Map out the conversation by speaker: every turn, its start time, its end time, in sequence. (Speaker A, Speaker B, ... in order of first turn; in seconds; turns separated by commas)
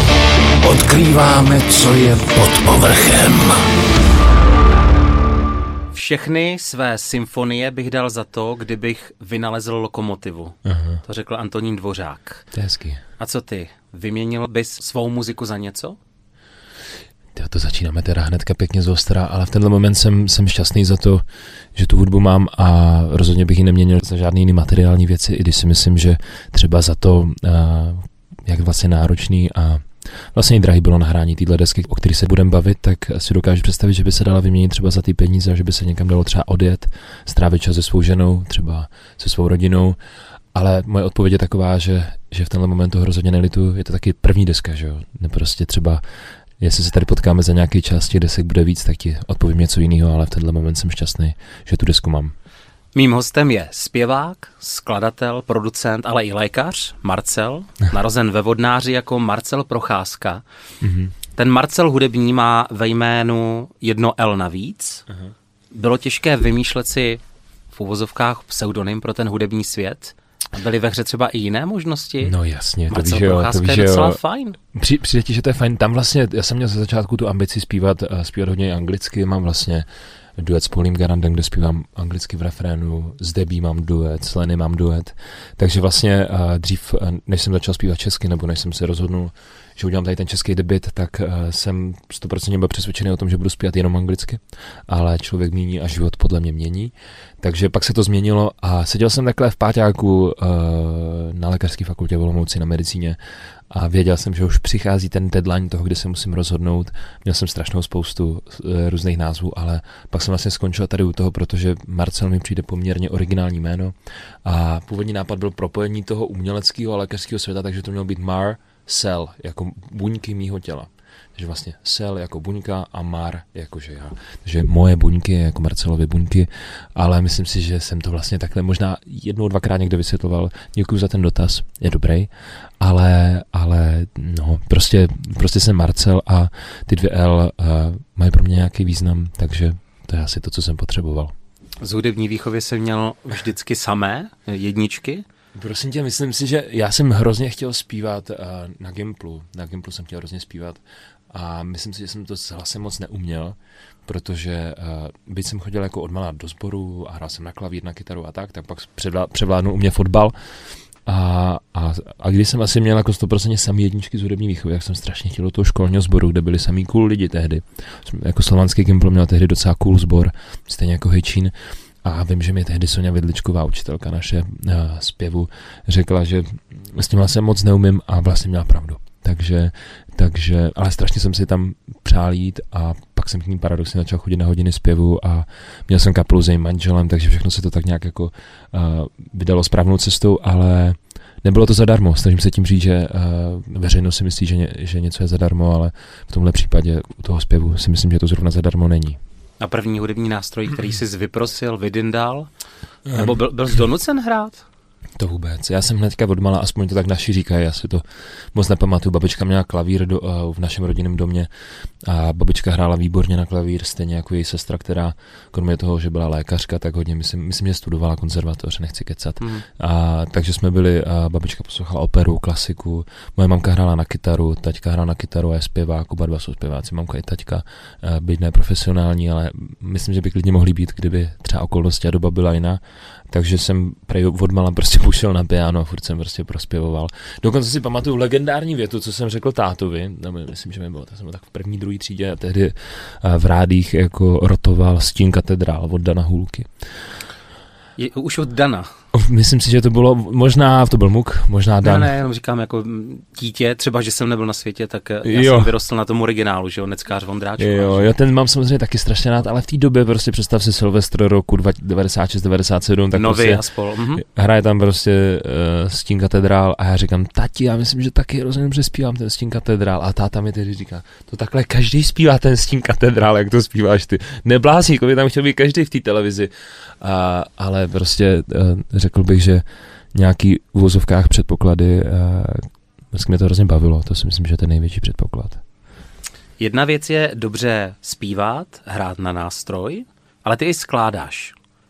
Speaker A: 0.6-3.6, Speaker B: 5.9-12.5, Speaker C: 10.6-11.0, Speaker C: 12.5-13.0, Speaker B: 13.2-16.0, Speaker C: 17.3-40.0, Speaker C: 40.5-46.0, Speaker C: 46.6-52.3, Speaker B: 52.9-60.4, Speaker C: 60.8-61.1, Speaker B: 61.4-65.0, Speaker C: 65.1-65.3, Speaker B: 65.7-72.3, Speaker C: 72.2-74.2, Speaker B: 72.9-74.6, Speaker C: 74.7-141.3, Speaker B: 141.8-145.2, Speaker C: 145.5-199.2, Speaker B: 199.6-202.5, Speaker C: 203.1-203.4, Speaker B: 203.1-204.6, Speaker C: 205.2-246.9, Speaker B: 219.4-219.7, Speaker B: 248.0-248.9, Speaker C: 249.1-252.1, Speaker B: 251.8-258.1, Speaker C: 255.2-255.7, Speaker C: 257.6-285.6, Speaker B: 263.1-264.2, Speaker B: 286.6-291.5